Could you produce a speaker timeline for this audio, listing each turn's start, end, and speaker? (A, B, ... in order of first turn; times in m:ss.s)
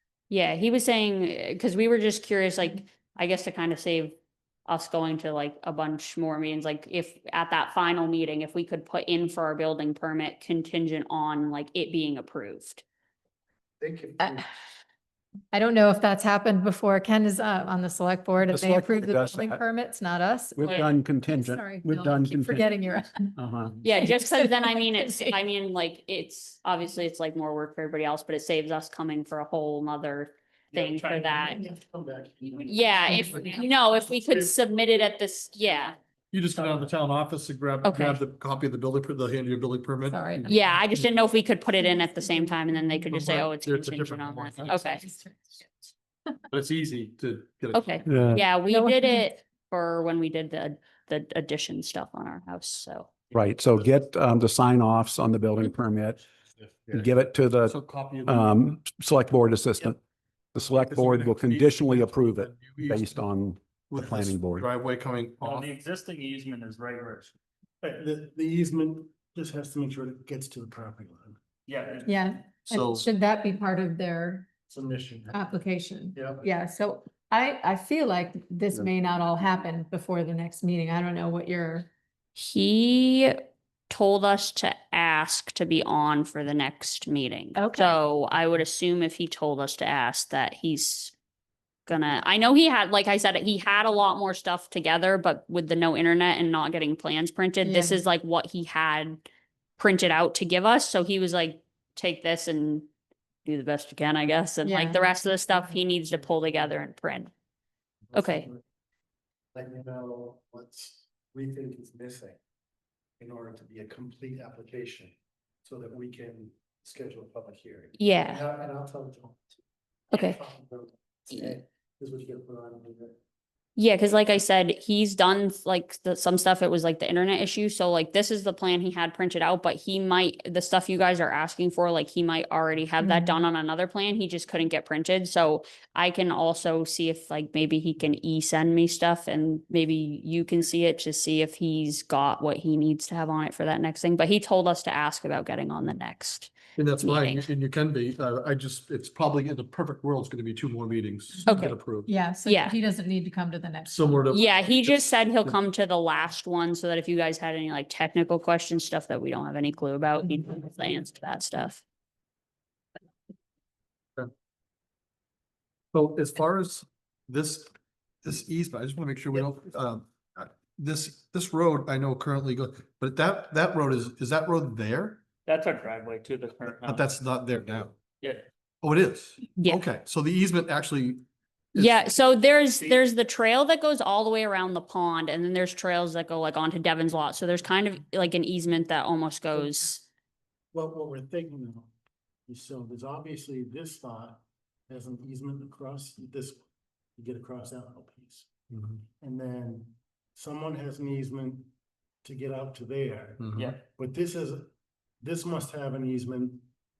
0:00.3-0:12.8 A
0:13.8-0:14.5 B
0:15.5-0:23.3 C
0:18.5-0:19.6 D
0:20.5-0:22.7 D
0:20.6-0:20.9 A
0:23.4-0:23.7 D
0:23.8-0:31.6 A
0:23.9-0:25.4 C
0:30.7-0:31.6 E
0:31.4-0:34.4 B
0:32.6-0:36.0 A
0:33.2-0:33.4 F
0:36.3-0:41.1 F
0:37.8-0:38.2 A
0:40.0-0:40.6 C
0:40.4-0:45.0 A
0:41.8-0:42.5 C
0:43.1-0:45.6 F
0:45.0-0:45.5 C
0:46.5-0:48.1 F
0:47.7-0:53.1 A
0:48.1-0:48.4 D
0:48.6-0:49.3 C
0:53.3-0:56.2 D
0:56.9-0:57.1 F
0:56.9-1:00.0 D
0:57.6-0:58.8 F
1:00.5-1:04.7 D
1:00.7-1:03.2 F
1:03.9-1:05.7 F
1:05.4-1:07.3 E
1:07.8-1:11.4 B
1:11.6-1:12.3 E
1:12.0-1:14.5 C
1:12.6-1:13.1 F
1:14.7-1:15.4 B
1:15.3-1:21.9 C
1:16.1-1:16.4 B
1:22.3-1:31.1 A
1:27.5-1:28.0 C
1:31.9-1:39.2 A
1:37.6-1:38.0 C
1:39.8-1:42.9 A
1:43.4-1:47.3 A
1:44.6-1:45.1 C
1:48.1-1:48.6 B
1:48.1-1:48.5 A
1:49.5-1:52.4 B
1:53.2-1:59.5 B
1:58.0-1:58.4 A
2:00.1-2:03.2 B
2:00.1-2:00.4 A
2:03.8-2:27.5 A
2:13.0-2:13.4 C
2:26.8-2:32.1 F
2:31.4-2:31.7 A
2:32.0-2:34.2 C
2:32.4-2:32.8 A
2:33.8-2:35.5 F
2:34.3-2:41.8 A
2:45.9-2:55.2 F
2:55.4-2:57.2 E
2:56.8-2:57.9 F
2:58.8-3:02.1 F
3:01.7-3:10.0 A
3:10.7-3:11.9 B
3:12.5-3:16.6 B
3:17.2-3:18.5 B
3:18.7-3:19.0 F
3:19.2-3:21.7 B
3:22.2-3:24.7 B
3:23.4-3:23.7 F
3:23.6-3:23.8 E
3:25.2-3:26.6 B